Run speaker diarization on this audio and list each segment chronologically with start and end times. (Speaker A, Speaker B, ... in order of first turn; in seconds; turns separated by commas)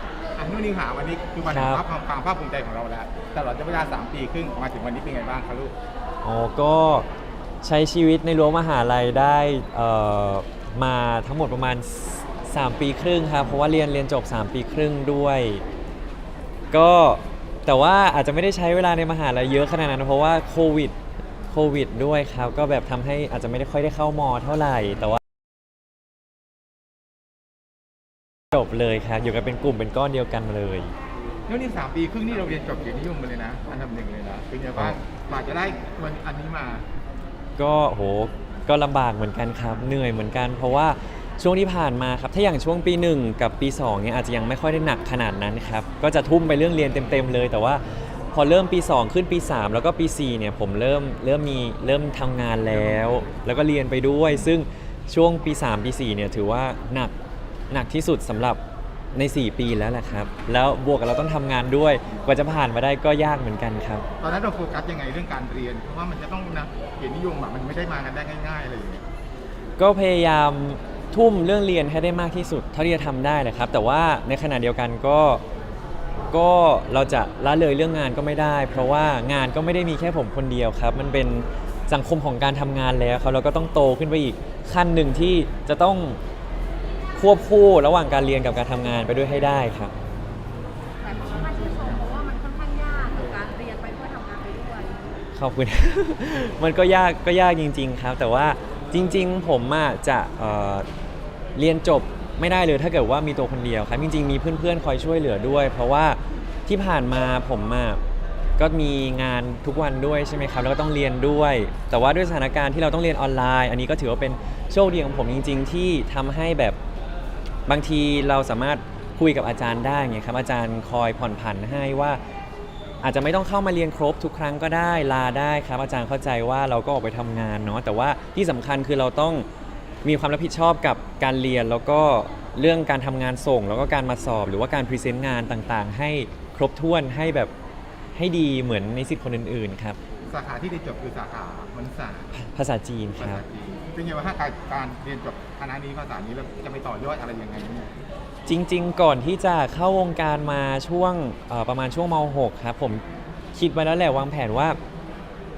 Speaker A: 0.4-5.7, Speaker B: 1.4-1.8, Speaker B: 6.2-7.1, Speaker B: 7.6-15.6, Speaker B: 16.7-20.9, Speaker B: 21.5-25.2, Speaker B: 28.5-30.9, Speaker A: 31.5-36.8, Speaker B: 37.6-47.8, Speaker B: 48.3-57.1, Speaker B: 57.7-58.6, Speaker B: 59.1-64.1, Speaker A: 64.2-69.0, Speaker B: 69.8-75.4, Speaker B: 76.3-86.2, Speaker B: 87.2-89.9, Speaker A: 91.1-92.2, Speaker C: 91.3-95.1, Speaker B: 95.3-100.9, Speaker B: 101.6-108.0, Speaker B: 108.6-116.8, Speaker B: 117.7-122.2, Speaker B: 123.0-129.5, Speaker B: 130.0-137.5, Speaker B: 138.2-140.0, Speaker A: 140.3-142.3, Speaker B: 142.4-143.4, Speaker A: 143.2-147.9, Speaker B: 148.5-153.0, Speaker B: 153.5-154.8